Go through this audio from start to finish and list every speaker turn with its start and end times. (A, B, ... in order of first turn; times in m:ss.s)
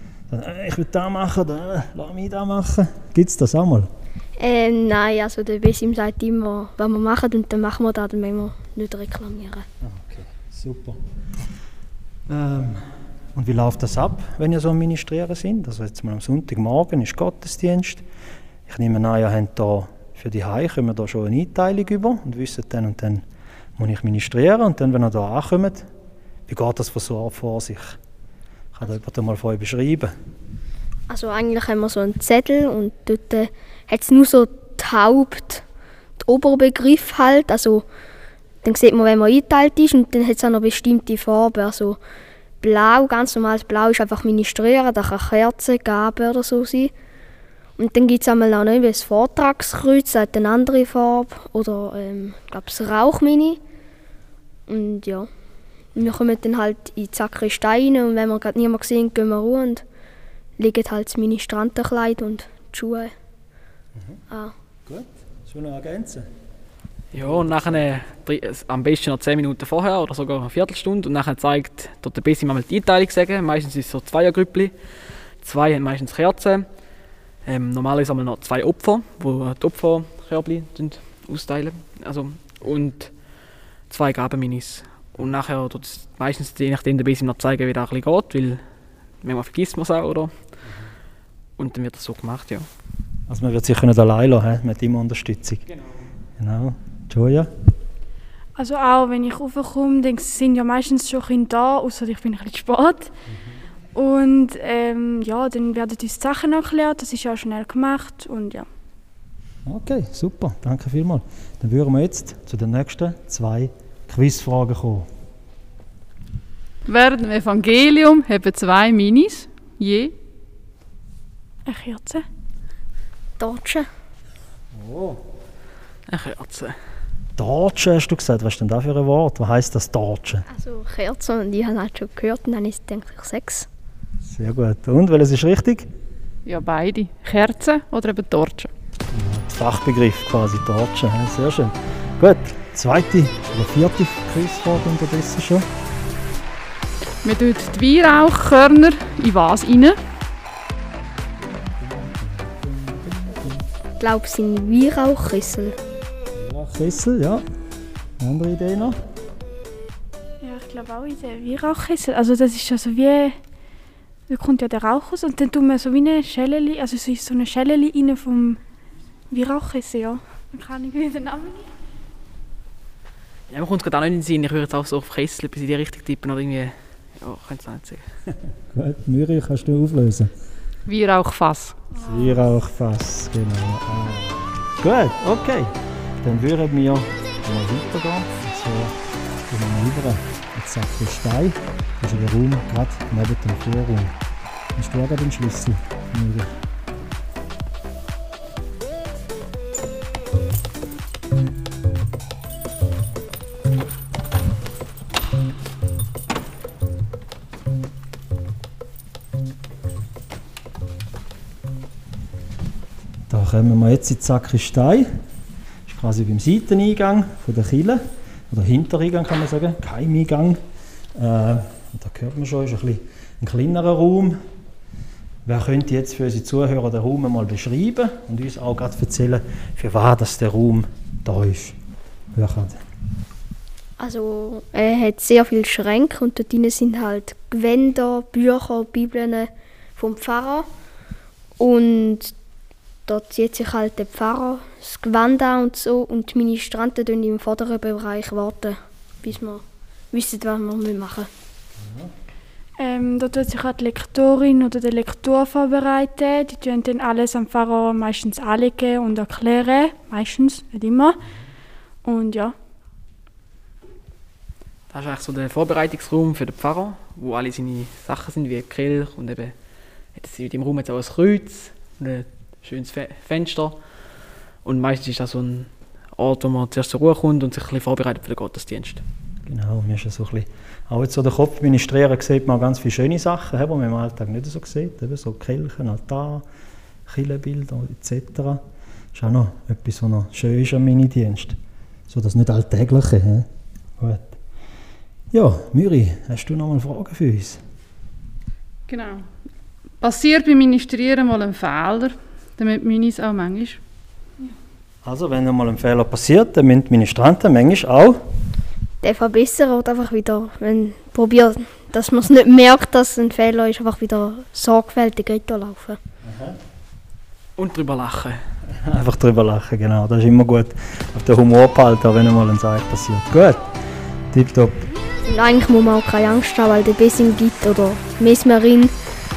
0:00.3-0:03.9 A
0:04.4-0:09.7 B
0:09.8-0:11.0 A
0:12.3-0:18.0 A
0:18.7-0:23.2 A
0:23.8-0:25.9 A
0:26.5-0:28.0 A
0:28.7-0:30.1 A
0:31.1-0:35.6 B
0:36.2-0:37.9 B
0:38.6-0:42.0 B
0:42.6-0:46.9 B
0:47.8-0:53.6 B
0:54.7-0:55.3 B
0:56.0-0:59.8 B
1:00.6-1:03.1 B
1:04.0-1:04.2 A
1:04.9-1:06.3 A
1:07.1-1:14.7 C
1:07.1-1:07.8 A
1:15.4-1:16.7 C
1:17.5-1:23.1 C
1:23.9-1:28.6 C
1:29.2-1:30.3 C
1:31.6-1:32.7 C
1:33.3-1:35.6 A
1:36.4-1:37.5 A
1:38.6-1:43.1 D
1:44.0-1:48.7 D
1:49.7-1:55.1 A
1:56.9-2:00.1 E
2:01.7-2:02.2 D
2:03.4-2:03.9 B
2:04.7-2:05.2 A
2:06.1-2:06.8 C
2:07.4-2:10.4 A
2:10.5-2:13.7 B
2:14.2-2:15.9 A
2:16.4-2:18.7 E
2:19.1-2:25.7 A
2:27.2-2:30.0 E
2:31.4-2:33.6 A
2:34.0-2:35.8 B
2:36.3-2:37.4 A
2:38.2-2:39.0 A
2:40.4-2:43.4 D
2:44.3-2:48.6 D
2:49.3-2:51.7 D
2:53.5-2:58.0 C
2:58.7-3:00.3 A
3:00.9-3:01.9 E
3:02.0-3:09.0 A
3:09.5-3:14.1 A
3:14.8-3:16.5 A
3:33.3-3:35.1 A
3:35.9-3:40.6 A
3:41.2-3:44.4 A
3:45.4-3:51.8 A
3:52.3-3:52.8 A
3:54.0-4:00.7 B
4:01.6-4:02.3 B
4:03.1-4:11.3 B
4:11.8-4:12.1 A
4:12.8-4:21.2 D
4:22.0-4:22.6 D
4:24.9-4:29.5 C
4:30.2-4:33.8 C
4:34.6-4:39.0 C
4:39.5-4:46.4 A
4:47.1-4:48.6 A
4:49.1-4:51.6 A
4:52.1-4:53.5 A
4:54.0-4:54.3 A
4:55.3-4:57.6 A
4:58.9-4:59.3 E
5:00.0-5:03.8 E
5:05.0-5:08.2 A
5:09.0-5:16.0 B
5:16.2-5:16.6 A
5:17.6-5:18.4 C
5:18.7-5:23.7 A
5:24.3-5:24.9 A
5:25.2-5:28.9 B